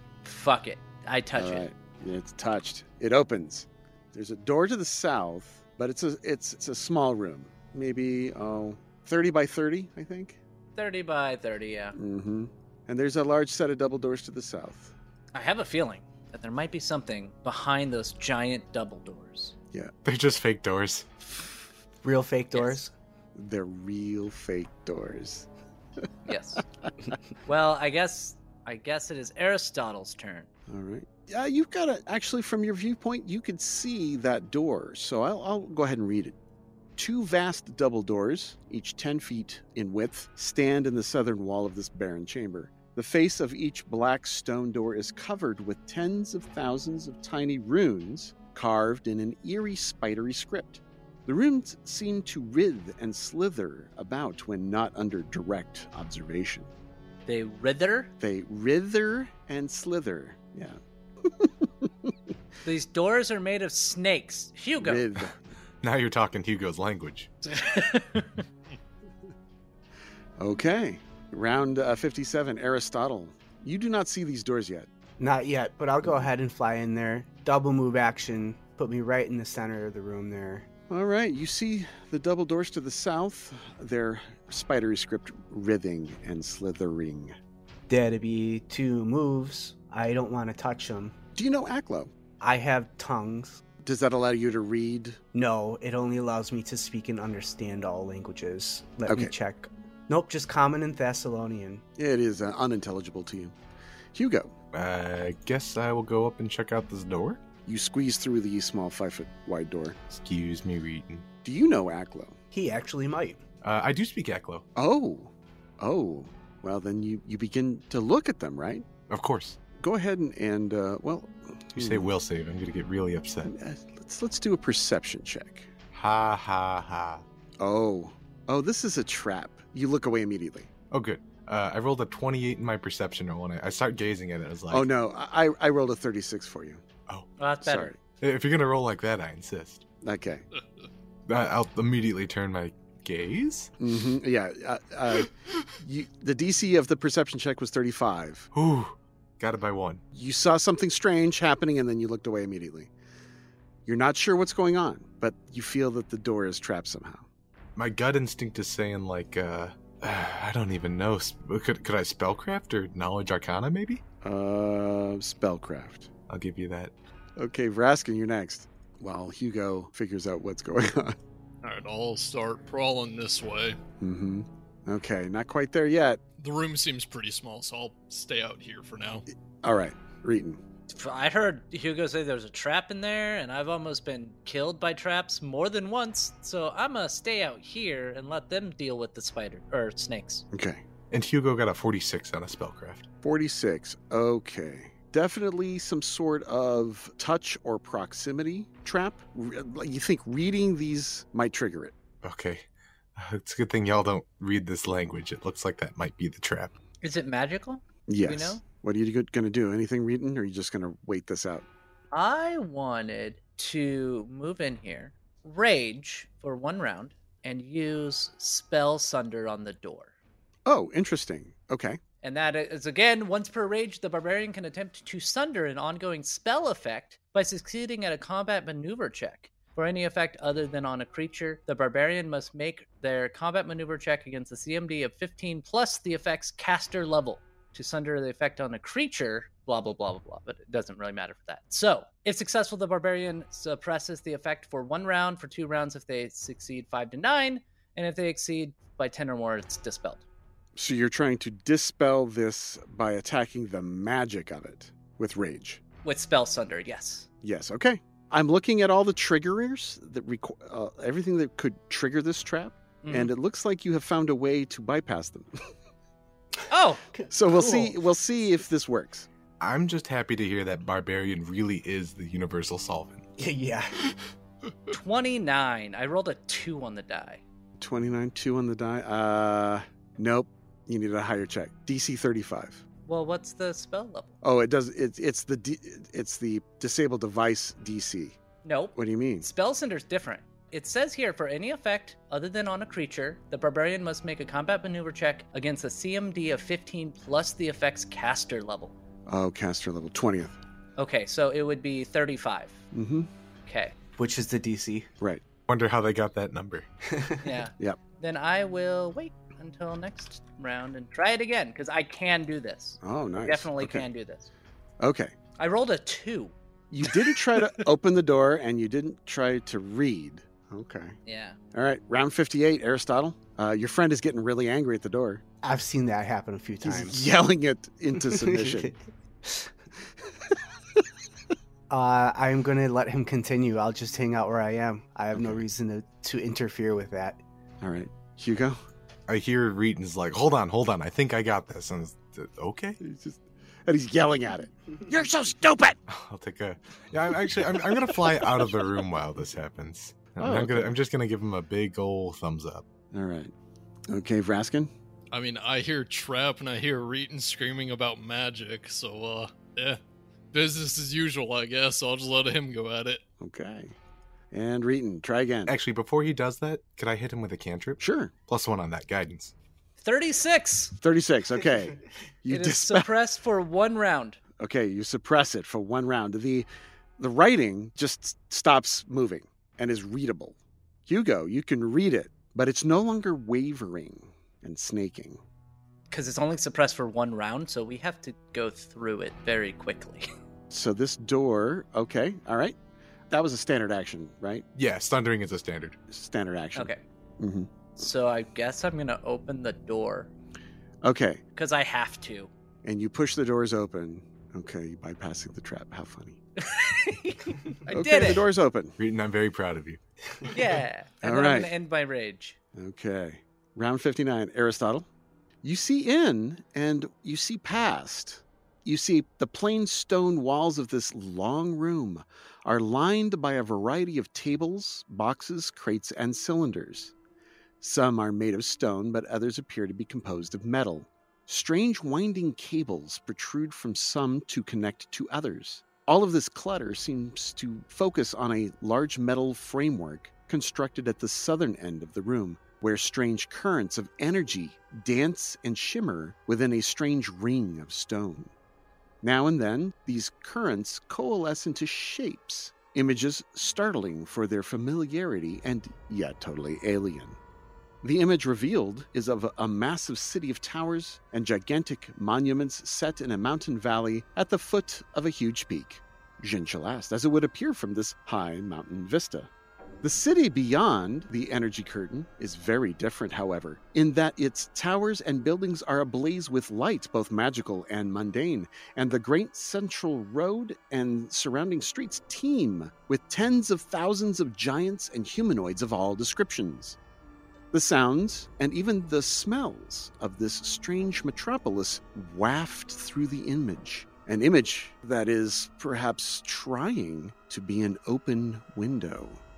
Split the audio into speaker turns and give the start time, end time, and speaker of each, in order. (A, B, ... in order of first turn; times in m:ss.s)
0:00.2-0:01.7 A
0:01.4-0:10.4 B
0:10.8-0:12.0 A
0:12.0-0:14.9 B
0:15.3-0:19.5 A
0:20.0-0:21.1 C
0:22.0-0:22.9 D
0:22.5-0:22.8 A
0:23.4-0:25.5 B
0:26.3-0:26.6 A
0:27.4-0:30.5 A
0:30.7-0:36.4 B
0:37.0-0:56.7 B
0:57.3-0:58.1 A
0:58.2-1:02.1 B
1:02.6-1:05.1 A
1:04.8-1:05.4 B
1:05.8-1:07.3 C
1:07.4-1:08.4 A
1:10.4-1:14.9 B
1:15.2-1:20.7 D
1:20.9-1:27.4 B
1:27.9-1:31.2 D
1:31.4-1:32.1 B
1:32.4-1:33.6 D
1:33.8-1:35.2 B
1:35.3-1:41.8 D
1:39.1-1:39.3 B
1:42.0-1:43.6 B
1:44.1-1:44.5 B
1:44.7-1:47.4 C
1:47.7-1:50.0 B
1:50.1-1:51.3 C
1:51.4-1:52.4 B
1:52.5-1:53.4 D
1:53.6-1:54.6 C
1:54.8-1:58.9 B
1:59.1-1:59.6 C
1:59.8-2:02.1 B
2:01.8-2:03.5 C
2:03.4-2:05.7 B
2:05.9-2:07.2 C
2:07.6-2:10.7 B
2:10.9-2:14.9 C
2:14.7-2:16.8 B
2:17.4-2:18.0 A
2:17.6-2:18.0 B
2:18.2-2:19.8 C
2:20.0-2:20.4 B
2:21.3-2:23.7 C
2:23.8-2:28.5 B
2:28.5-2:30.0 C
2:30.1-2:32.9 B
2:33.9-2:37.3 B
2:37.8-2:44.0 C
2:44.2-2:46.1 B
2:46.3-2:46.9 C
2:47.4-2:51.2 B
2:51.6-2:53.8 E
2:54.0-2:56.2 B
2:56.4-2:59.2 E
2:59.6-3:00.6 B
3:00.9-3:10.4 A
3:10.5-3:10.8 B
3:11.1-3:13.0 C
3:13.2-3:22.0 B
3:22.2-3:26.7 C
3:27.0-3:28.6 A
3:28.1-3:31.7 B
3:32.1-3:40.1 A
3:40.7-3:42.0 B
3:42.2-4:10.2 A
4:10.8-4:15.8 B
4:16.0-4:17.3 A
4:17.4-4:25.6 B
4:23.0-4:23.3 A
4:26.7-4:27.0 A
4:27.2-4:27.9 D
4:27.3-4:29.3 B
4:29.6-4:33.3 C
4:33.4-4:33.9 D
4:34.9-4:37.4 A
4:37.8-4:42.8 B
4:43.1-4:44.3 A
4:44.4-4:48.4 B
4:48.6-4:58.9 A
4:49.0-4:49.5 B
4:59.3-5:00.6 B
5:01.0-5:02.8 A
5:02.9-5:03.3 B
5:03.7-5:04.0 A
5:04.2-5:05.1 D
5:05.7-5:06.9 C
5:07.1-5:07.4 D
5:07.4-5:14.5 A
5:13.0-5:14.1 B
5:15.0-5:15.3 B
5:15.6-5:16.5 A
5:16.9-5:21.2 B
5:17.0-5:17.7 A
5:21.2-5:21.6 A
5:21.7-5:25.4 B
5:25.6-5:27.3 D
5:26.8-5:28.9 B
5:28.2-5:29.7 D
5:31.9-5:37.4 D
5:35.3-5:35.6 B
5:37.8-5:38.8 B
5:39.3-5:43.0 C
5:43.0-5:46.0 B
5:46.1-5:52.8 C
5:50.4-5:51.0 B
5:53.1-5:53.5 B
5:54.1-5:54.9 B
5:55.3-6:00.0 E
6:00.5-6:03.2 E
6:03.4-6:04.0 B
6:04.5-6:05.8 B
6:05.7-6:09.5 C
6:08.0-6:08.3 B
6:10.0-6:11.0 A
6:11.0-6:13.1 B
6:12.5-6:14.4 A
6:14.6-6:16.7 B
6:17.2-6:20.6 B
6:21.1-6:25.4 B
6:26.1-6:30.3 A
6:30.7-6:32.8 B
6:33.3-6:34.6 B
6:34.8-6:36.0 C
6:36.1-6:37.7 B
6:36.8-6:37.0 A
6:38.0-6:40.3 A
6:41.0-6:41.4 B
6:41.6-6:42.5 A
6:42.8-6:46.4 B
6:46.6-6:48.4 A
6:47.9-6:49.0 B
6:49.0-6:50.0 C
6:50.5-6:52.6 A
6:51.2-6:51.7 B
6:52.8-6:55.1 B
6:55.6-7:07.1 B
7:07.8-7:28.5 B
7:29.2-7:37.4 B
7:38.0-7:49.5 B
7:50.0-8:07.0 B
8:07.7-8:19.4 B